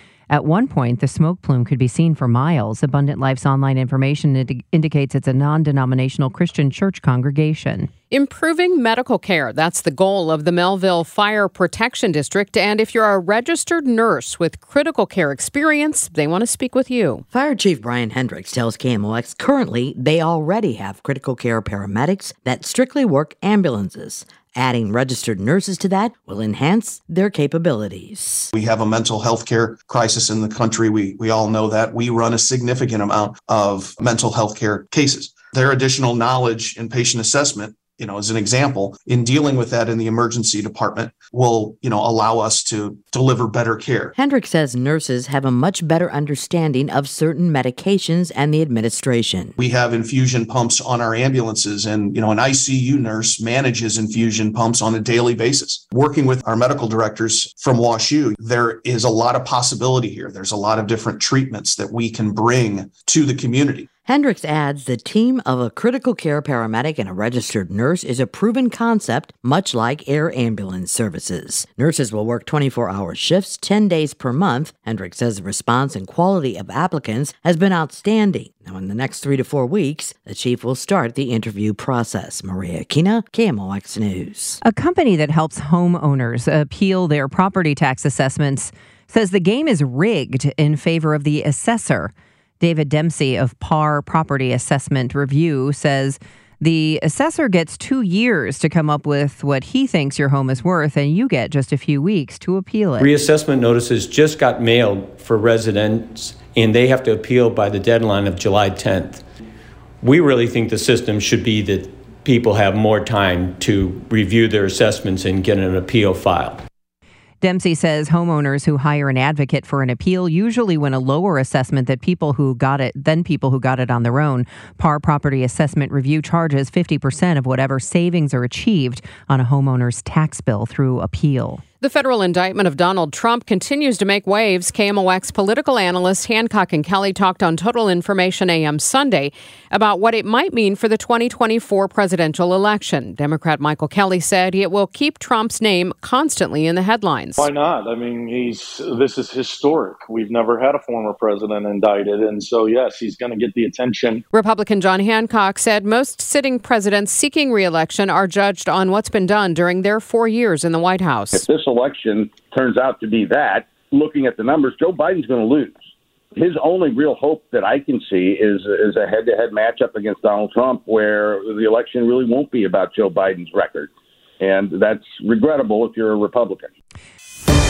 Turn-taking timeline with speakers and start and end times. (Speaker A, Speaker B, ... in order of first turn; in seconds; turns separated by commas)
Speaker A: 0.3-7.9, Speaker B: 8.1-17.2, Speaker C: 17.3-28.5, Speaker D: 28.5-44.1, Speaker C: 44.2-49.6, Speaker D: 49.6-63.9, Speaker C: 64.1-84.6, Speaker A: 84.6-103.1, Speaker E: 103.0-109.2, Speaker E: 110.0-116.6, Speaker A: 117.4-131.6, Speaker B: 131.8-147.5, Speaker F: 147.4-154.2, Speaker B: 154.3-161.4, Speaker G: 161.3-165.8, Speaker G: 166.3-176.7